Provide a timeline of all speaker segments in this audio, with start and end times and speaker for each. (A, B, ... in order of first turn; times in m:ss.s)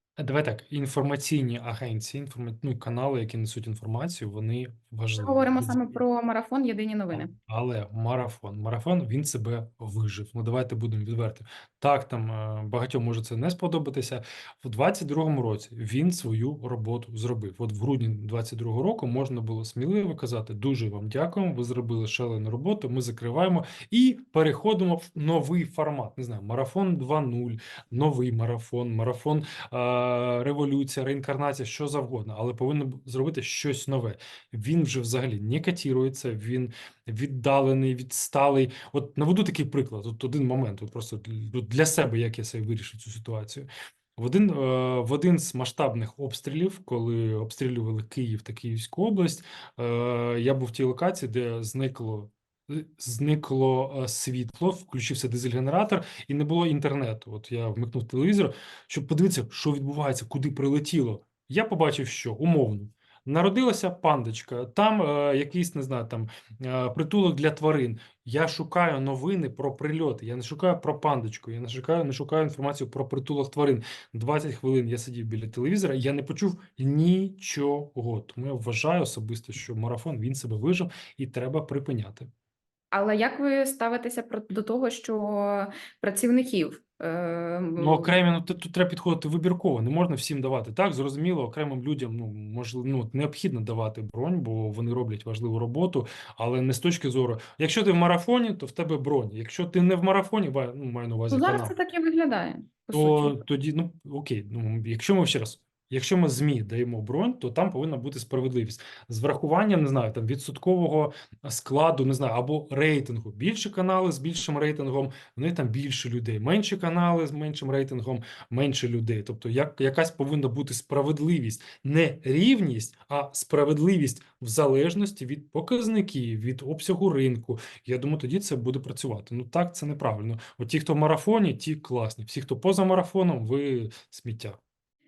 0:00.2-0:06.0 A
0:05.2-0:07.3 B
0:07.1-1:22.3 A
1:22.9-1:28.2 B
1:27.8-1:41.8 A
1:41.3-1:43.4 B
1:42.9-2:14.6 A